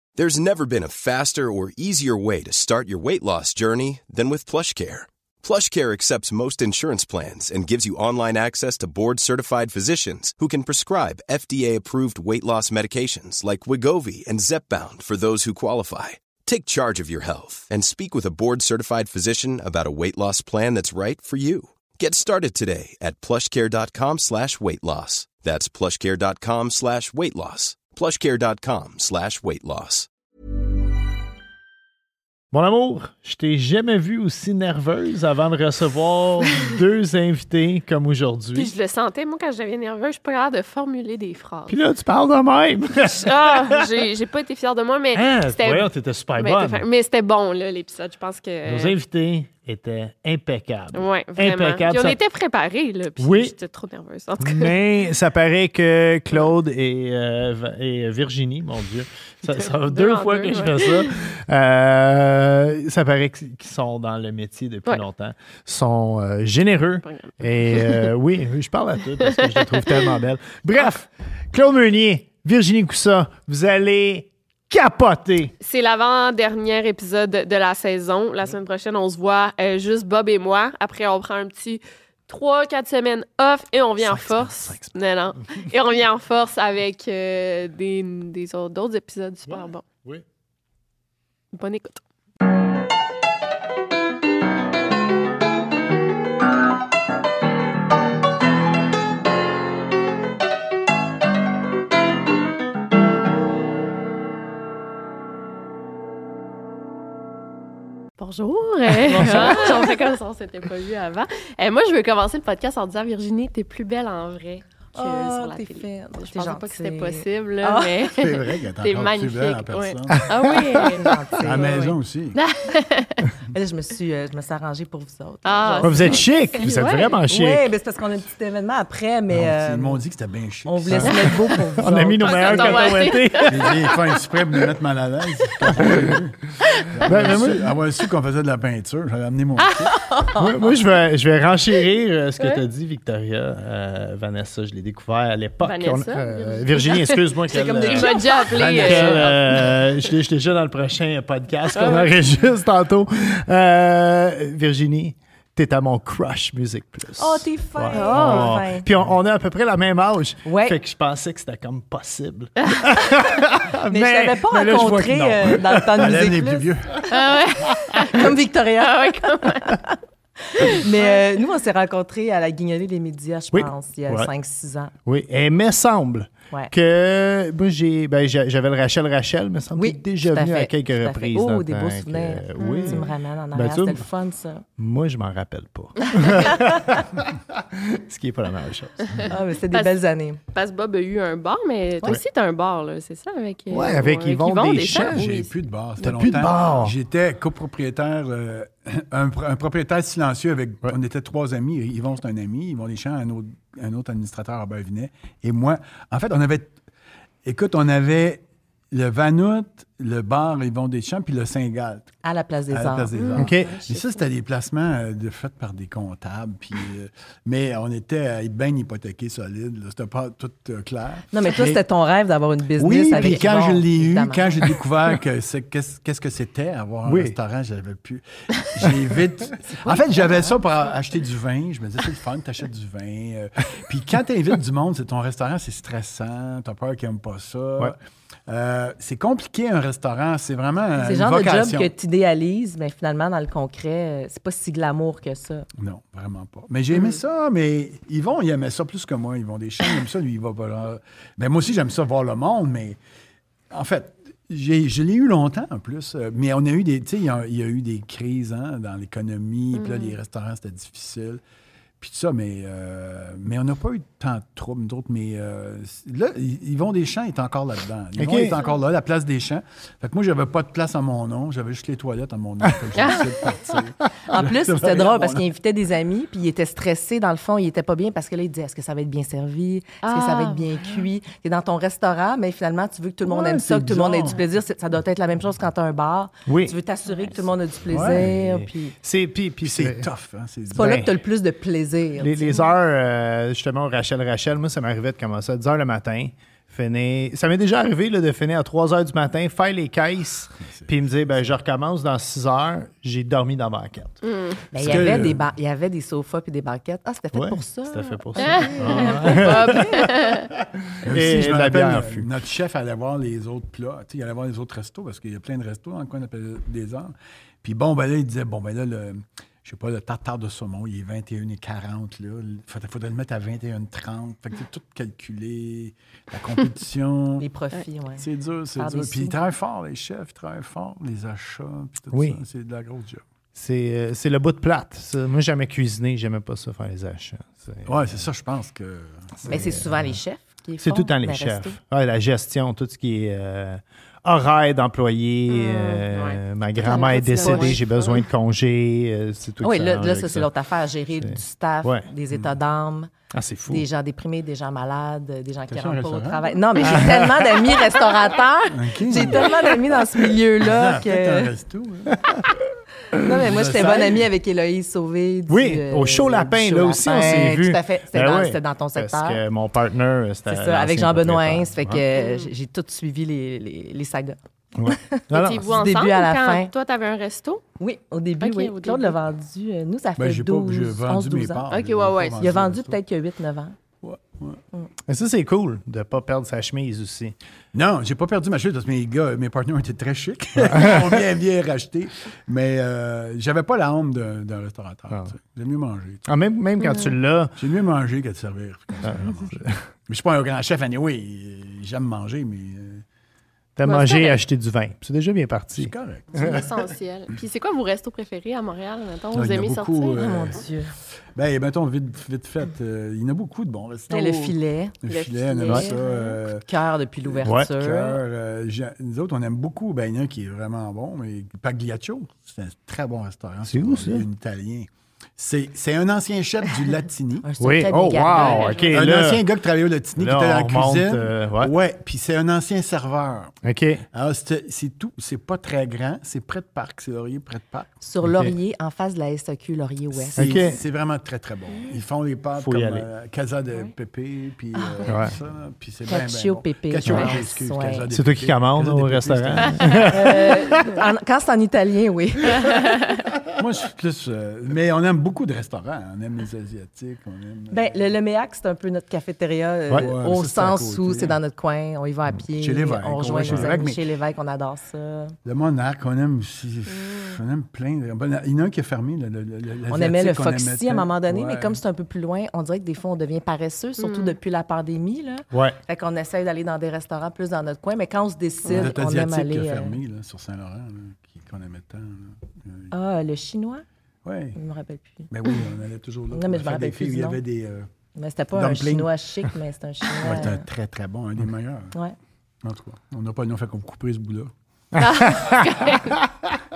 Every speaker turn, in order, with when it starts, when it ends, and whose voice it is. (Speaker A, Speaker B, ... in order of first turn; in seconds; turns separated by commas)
Speaker A: 0.2-30.1, Speaker B: 32.5-38.7, Speaker C: 38.5-41.8, Speaker B: 41.7-43.8, Speaker C: 43.0-48.9, Speaker B: 45.1-46.9, Speaker B: 48.6-52.2, Speaker C: 50.9-54.8, Speaker B: 53.2-53.5, Speaker B: 54.4-75.5, Speaker C: 59.5-61.3, Speaker C: 67.0-68.0, Speaker C: 69.2-70.1, Speaker C: 75.6-89.8, Speaker B: 84.0-84.9, Speaker B: 89.5-90.2, Speaker C: 91.5-92.0, Speaker C: 108.2-123.3, Speaker D: 109.1-109.9, Speaker D: 115.0-118.0, Speaker E: 118.1-120.6, Speaker B: 120.4-120.8, Speaker D: 120.9-121.8, Speaker E: 121.4-122.4, Speaker D: 123.5-126.2, Speaker C: 125.4-127.2, Speaker B: 125.8-127.7, Speaker D: 127.3-130.0, Speaker E: 129.3-131.4, Speaker D: 130.7-133.0, Speaker B: 130.9-133.8, Speaker C: 132.2-134.0, Speaker E: 133.5-136.4, Speaker B: 135.6-136.2, Speaker C: 136.7-137.1, Speaker E: 136.9-139.9, Speaker B: 137.0-137.7, Speaker C: 139.6-140.0, Speaker D: 140.1-140.5, Speaker B: 140.3-166.2, Speaker C: 145.6-149.7, Speaker D: 147.5-149.7, Speaker C: 151.7-152.2, Speaker D: 157.2-158.8, Speaker C: 157.9-158.5, Speaker D: 160.4-160.8, Speaker D: 163.9-166.6, Speaker E: 165.8-167.1, Speaker C: 167.1-169.7, Speaker D: 168.1-170.0, Speaker D: 170.5-174.9, Speaker C: 170.7-171.2, Speaker B: 173.5-174.3, Speaker B: 175.0-184.1, Speaker D: 179.8-184.6, Speaker C: 182.6-183.1, Speaker B: 184.8-189.3, Speaker D: 189.3-190.4, Speaker C: 190.5-196.6, Speaker B: 193.7-195.3, Speaker E: 195.0-206.8, Speaker B: 196.0-196.9, Speaker E: 207.4-212.1, Speaker D: 212.2-213.1, Speaker E: 212.7-221.8, Speaker C: 213.1-214.2, Speaker B: 213.4-213.8, Speaker D: 221.3-224.7, Speaker E: 222.8-241.9, Speaker B: 227.0-227.3, Speaker D: 229.6-230.6, Speaker D: 241.0-245.7, Speaker E: 245.8-253.0, Speaker E: 253.7-261.4, Speaker C: 259.7-260.2, Speaker E: 262.0-275.5, Speaker B: 268.1-268.6, Speaker C: 272.9-273.2, Speaker D: 274.3-288.9, Speaker C: 280.0-281.1, Speaker E: 283.2-284.4, Speaker B: 286.5-286.7, Speaker E: 287.9-288.3, Speaker B: 287.9-290.1, Speaker E: 289.6-291.1, Speaker B: 290.7-291.1, Speaker D: 290.7-292.6, Speaker B: 292.2-304.2, Speaker E: 300.6-300.9, Speaker C: 304.2-304.6, Speaker D: 304.7-310.0, Speaker B: 304.8-305.2, Speaker E: 304.8-305.5, Speaker B: 307.3-312.3, Speaker C: 308.4-310.5, Speaker E: 311.0-327.4, Speaker D: 327.4-328.2, Speaker E: 328.2-333.2, Speaker D: 328.8-329.3, Speaker B: 332.1-332.4, Speaker B: 333.5-338.3, Speaker E: 337.9-339.8, Speaker D: 339.4-341.8, Speaker B: 339.5-340.2, Speaker B: 340.8-350.5, Speaker C: 345.5-348.2, Speaker D: 346.8-347.8, Speaker D: 349.6-353.1, Speaker B: 351.2-352.1, Speaker B: 353.3-353.8, Speaker D: 353.7-361.5, Speaker E: 355.7-356.4, Speaker B: 356.8-357.8, Speaker E: 358.7-359.6, Speaker E: 360.6-362.2, Speaker B: 362.1-362.4, Speaker D: 363.2-369.4, Speaker E: 363.4-364.3, Speaker B: 365.5-372.0, Speaker D: 370.5-376.7, Speaker C: 372.1-372.5, Speaker B: 374.8-375.7, Speaker C: 375.3-377.6, Speaker D: 377.8-381.7, Speaker C: 378.4-379.2, Speaker E: 380.2-383.0, Speaker C: 381.7-382.4, Speaker D: 382.3-383.8, Speaker E: 384.0-384.6, Speaker B: 385.1-387.4, Speaker E: 387.7-396.2, Speaker B: 390.6-391.2, Speaker B: 396.3-397.6, Speaker C: 396.8-397.1, Speaker E: 397.6-403.0, Speaker B: 399.0-399.9, Speaker B: 403.8-406.6, Speaker C: 403.8-404.4, Speaker E: 405.7-406.6, Speaker C: 406.3-410.2, Speaker E: 409.3-410.6, Speaker D: 410.2-410.9, Speaker E: 411.3-416.7, Speaker D: 414.1-415.0, Speaker C: 415.1-416.3, Speaker D: 415.5-415.9, Speaker D: 416.6-418.2, Speaker E: 417.3-427.5, Speaker B: 417.4-417.7, Speaker B: 423.6-424.3, Speaker D: 427.4-428.9, Speaker B: 427.6-429.5, Speaker C: 428.3-429.0, Speaker E: 428.9-433.5, Speaker B: 430.1-431.7, Speaker B: 433.6-434.0, Speaker E: 434.1-437.9, Speaker D: 438.0-440.8, Speaker B: 438.2-438.6, Speaker E: 440.1-450.5, Speaker B: 440.4-440.8, Speaker B: 442.5-443.1, Speaker D: 444.8-445.1, Speaker B: 445.1-445.4, Speaker D: 446.1-448.1, Speaker B: 448.1-450.6, Speaker D: 450.1-452.8, Speaker C: 452.6-453.2, Speaker E: 453.6-458.1, Speaker D: 457.7-465.3, Speaker E: 459.9-461.4, Speaker E: 462.5-464.0, Speaker B: 463.4-463.9, Speaker E: 465.4-471.8, Speaker C: 466.9-467.4, Speaker D: 469.9-479.9, Speaker C: 474.0-474.4, Speaker C: 478.6-478.9, Speaker E: 478.7-482.9, Speaker D: 482.9-483.8, Speaker E: 484.2-484.6, Speaker D: 484.6-485.3, Speaker E: 485.3-487.9, Speaker D: 486.3-487.4, Speaker D: 488.1-490.6, Speaker E: 488.5-489.1, Speaker E: 490.2-491.9, Speaker E: 492.6-494.5, Speaker B: 494.9-496.3, Speaker C: 495.0-496.1